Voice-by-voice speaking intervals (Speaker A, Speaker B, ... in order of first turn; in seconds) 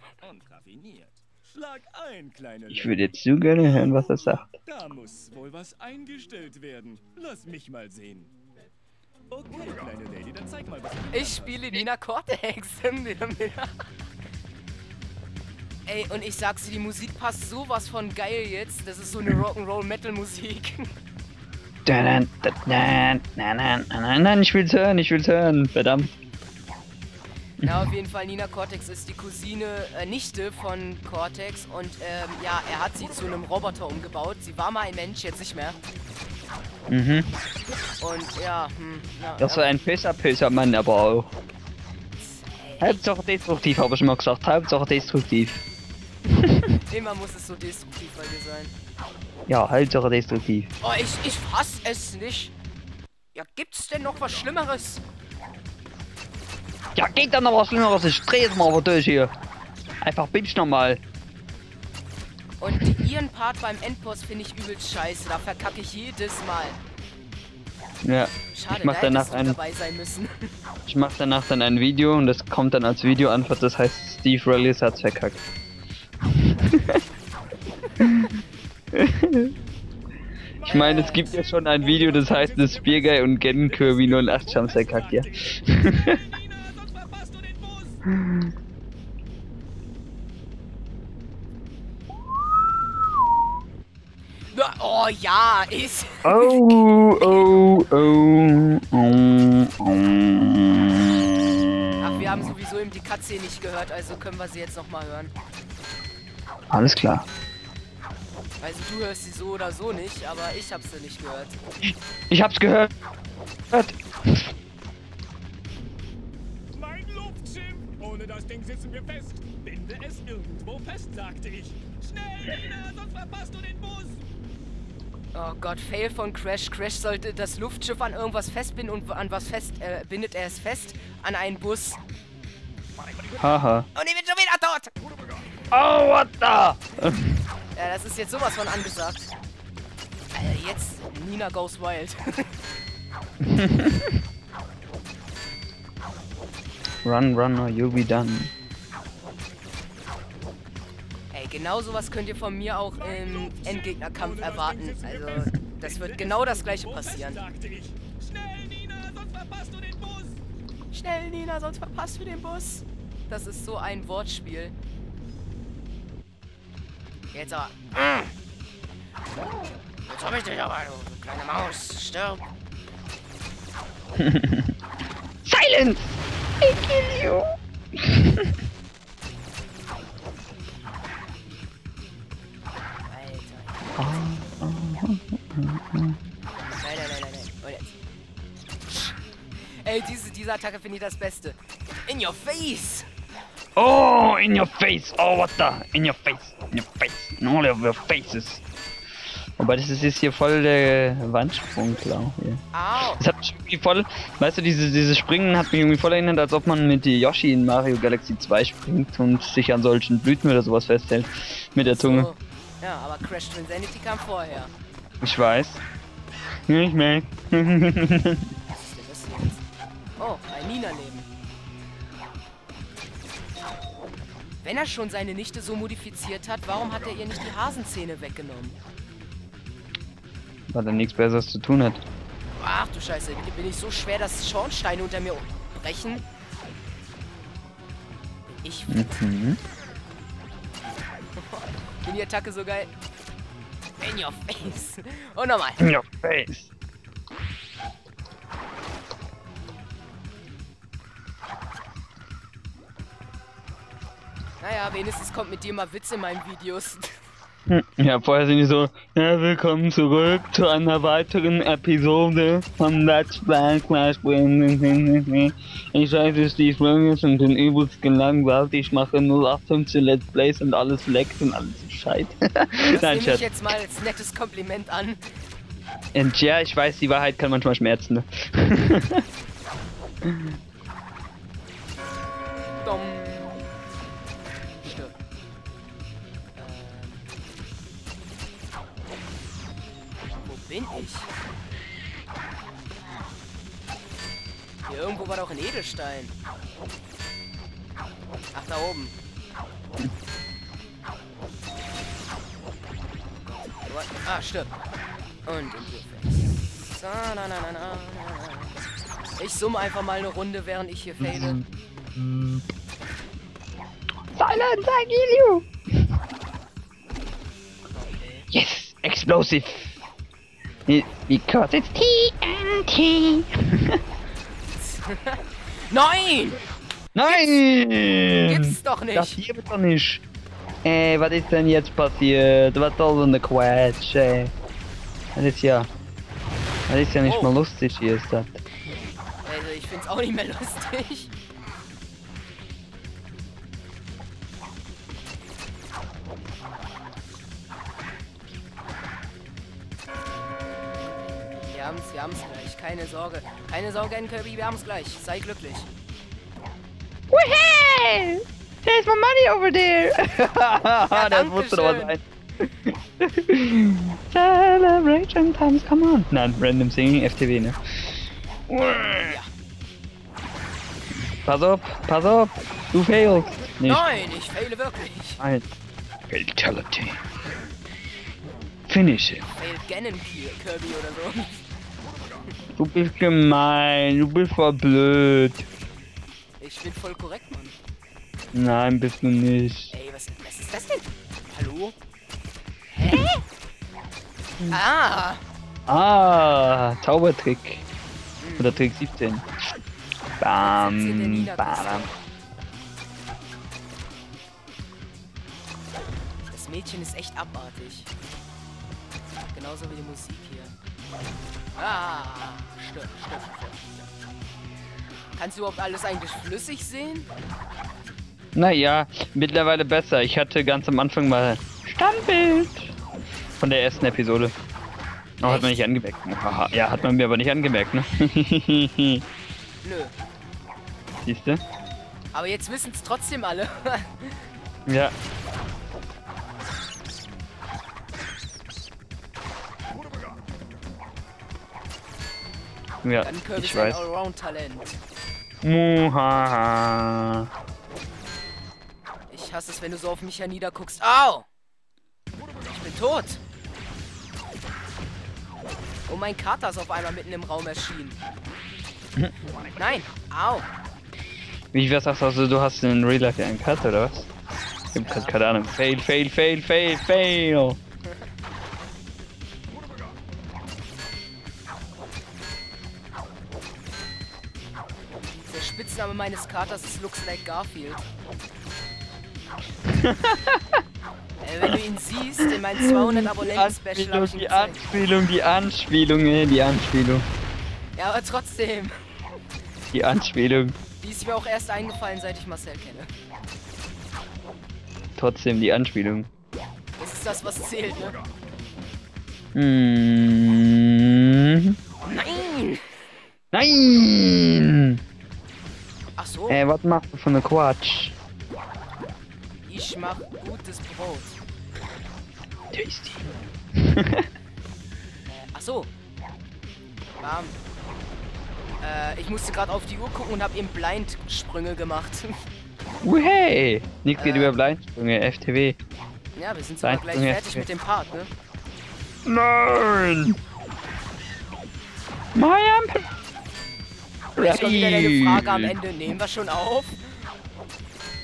Speaker A: 0.2-3.1, 4.7-8.3, 9.3-11.8, 80.6-88.0, 116.7-124.2, 152.9-160.4
Speaker B: 2.7-4.5, 21.9-26.1, 36.9-37.3, 39.4-41.3, 42.8-45.6, 46.3-46.6, 49.5-50.7, 56.9-59.3, 60.0-61.0, 68.0-69.6, 70.9-75.4, 76.3-77.0, 78.0-78.3, 78.9-79.5, 80.7-86.2, 88.1-88.5, 96.2-101.8, 106.7-107.2, 112.3-112.9, 113.7-114.0, 133.4-133.8, 135.7-137.4, 143.4-144.1, 147.0-148.5, 174.2-174.7, 175.4-178.5, 184.0-186.2, 193.8-198.6, 199.6-202.6, 203.1-212.3, 215.2-215.8, 216.7-218.5, 230.7-232.0, 238.9-239.6, 245.8-246.7, 257.7-273.5, 276.1-279.2, 311.2-311.6, 312.1-312.6, 314.3-315.7, 318.5-319.9, 320.9-324.0, 327.1-330.2, 330.8-334.5, 335.3-335.9, 336.9-338.6, 357.3-369.4, 371.4-374.1, 375.4-375.7, 376.3-377.2, 378.9-379.4, 382.8-385.6, 388.5-389.9, 395.9-397.8, 398.6-399.4, 400.4-402.1, 418.5-422.9, 423.6-424.5, 425.4-429.2, 431.2-431.6, 434.9-435.1, 443.0-444.1, 445.6-447.5, 461.7-464.3, 464.9-467.8, 479.9-480.8, 482.4-487.2, 489.9-490.8, 495.2-496.3, 499.5-501.8, 503.5-505.0, 506.5-508.1, 512.7-514.3, 523.0-525.8, 526.8-527.6, 529.2-530.4, 532.3-533.1, 534.4-535.7
Speaker C: 11.1-13.7, 15.8-20.9, 27.6-35.8, 38.0-39.8, 42.2-43.0, 46.9-48.7, 50.8-52.5, 53.3-55.0, 62.6-66.8, 68.5-70.5, 80.6-81.4, 94.5-97.8, 102.0-105.3, 108.6-111.6, 125.3-132.0, 133.9-134.9, 137.7-139.3, 140.3-142.6, 151.3-157.4, 160.9-164.7, 167.3-168.3, 170.1-172.4, 183.1-184.1, 186.8-188.0, 188.9-193.1, 202.7-203.2, 211.9-214.7, 218.7-219.6, 220.2-221.3, 224.6-228.8, 232.6-236.2, 238.6-239.3, 241.4-242.9, 244.0-245.8, 254.6-257.1, 272.8-275.2, 282.8-283.6, 284.8-285.1, 286.6-287.2, 290.4-291.3, 294.9-296.3, 298.5-299.1, 303.4-304.7, 305.4-308.8, 309.4-311.6, 317.9-318.5, 324.7-326.6, 327.2-327.6, 328.4-329.4, 337.2-337.5, 339.4-341.3, 351.7-355.9, 361.1-362.1, 369.2-369.5, 373.8-375.4, 379.5-381.6, 386.6-387.7, 389.9-391.9, 392.9-393.4, 394.7-395.4, 398.4-398.9, 400.6-402.1, 406.4-408.1, 409.5-410.7, 411.8-414.1, 415.3-417.3, 425.4-425.9, 429.8-430.1, 432.3-434.5, 443.2-445.0, 449.3-451.5, 452.6-453.4, 456.1-458.2, 459.8-460.7, 465.0-465.3, 475.5-478.1, 481.4-484.8, 487.9-488.9, 491.0-493.1, 497.0-498.2, 502.0-502.9, 506.2-506.6, 509.6-511.4, 515.3-515.9, 517.2-517.5, 518.8-522.4, 524.2-524.5, 526.3-528.3, 534.4-537.2